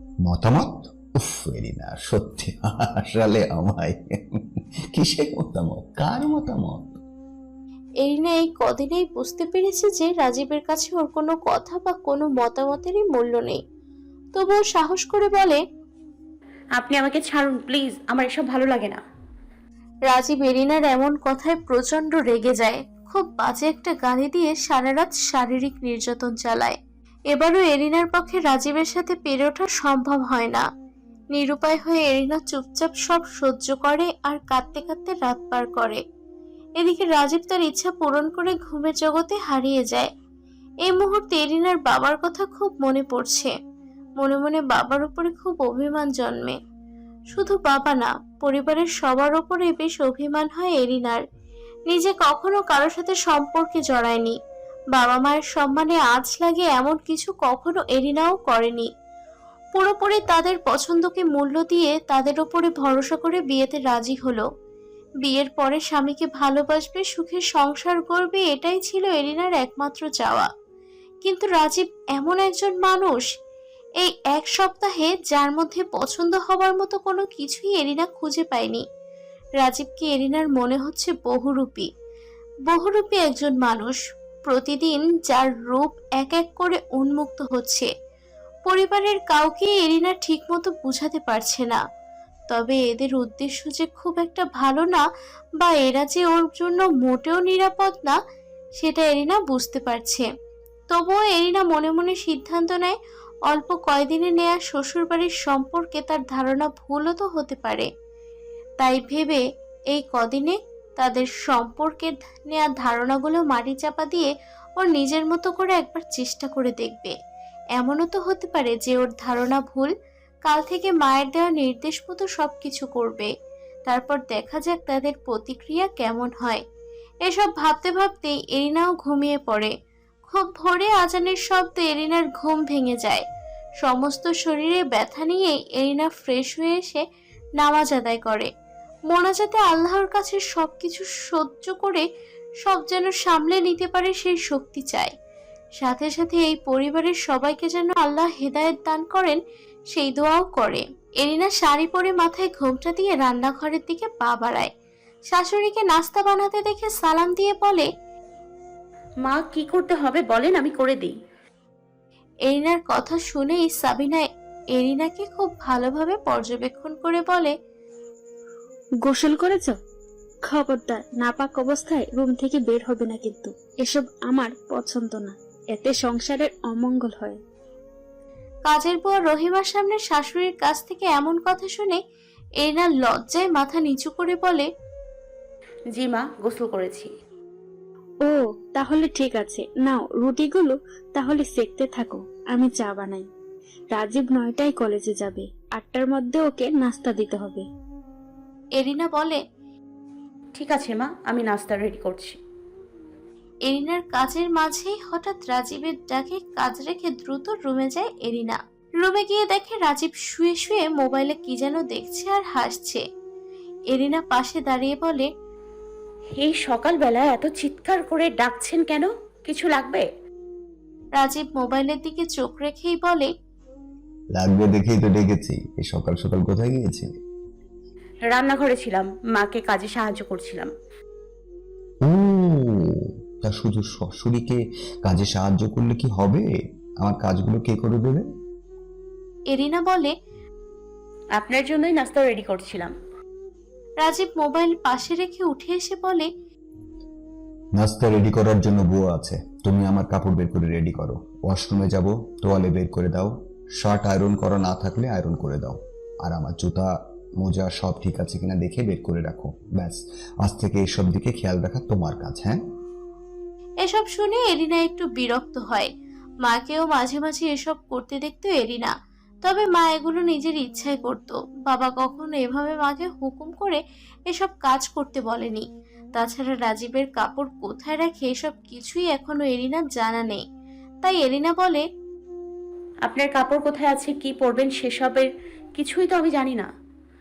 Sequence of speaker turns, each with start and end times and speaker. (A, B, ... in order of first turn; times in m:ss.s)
0:00.3-0:07.0 A
0:08.0-0:13.6 B
0:14.4-0:15.6 B
0:16.8-0:19.0 C
0:20.1-0:26.8 B
0:27.3-0:30.7 B
0:31.3-0:36.0 B
0:36.8-0:40.1 B
0:40.9-0:43.5 B
0:44.2-0:46.6 B
0:47.3-0:51.2 B
0:51.9-0:54.4 B
0:54.9-0:58.9 B
0:59.8-1:04.5 B
1:05.2-1:10.5 B
1:11.2-1:13.2 B
1:14.0-1:18.8 B
1:19.6-1:21.9 B
1:22.7-1:27.9 B
1:28.7-1:31.8 B
1:32.5-1:35.0 B
1:35.6-1:38.2 B
1:38.8-1:40.3 B
1:40.9-1:43.0 B
1:43.5-1:47.9 B
1:48.8-1:57.2 B
1:57.8-1:59.9 B
2:00.5-2:03.3 B
2:03.9-2:06.6 B
2:07.2-2:09.7 B
2:10.3-2:13.3 B
2:13.8-2:17.0 B
2:17.6-2:18.5 B
2:19.1-2:22.0 B
2:22.6-2:25.2 B
2:25.8-2:29.4 B
2:29.9-2:34.7 B
2:35.3-2:37.9 B
2:39.3-2:41.2 C
2:42.5-2:47.5 B
2:49.0-2:49.8 D
2:50.5-2:57.4 D
2:58.7-3:02.0 B
3:02.6-3:04.7 B
3:05.9-3:07.1 C
3:08.2-3:13.3 D
3:13.9-3:17.6 D
3:18.8-3:19.4 B
3:20.6-3:22.4 C
3:23.7-3:33.0 B
3:33.9-3:35.3 B
3:36.4-3:40.1 C
3:41.2-3:43.3 B
3:44.4-3:47.1 A
3:48.3-3:50.7 C
3:52.0-3:52.9 A
3:53.4-3:56.4 A
3:57.0-3:58.3 A
3:59.5-4:00.1 B
4:01.4-4:02.9 C
4:04.0-4:06.3 B
4:07.8-4:22.6 A
4:23.8-4:25.9 B
4:26.4-4:40.4 B
4:41.0-4:41.8 B
4:43.1-4:46.7 C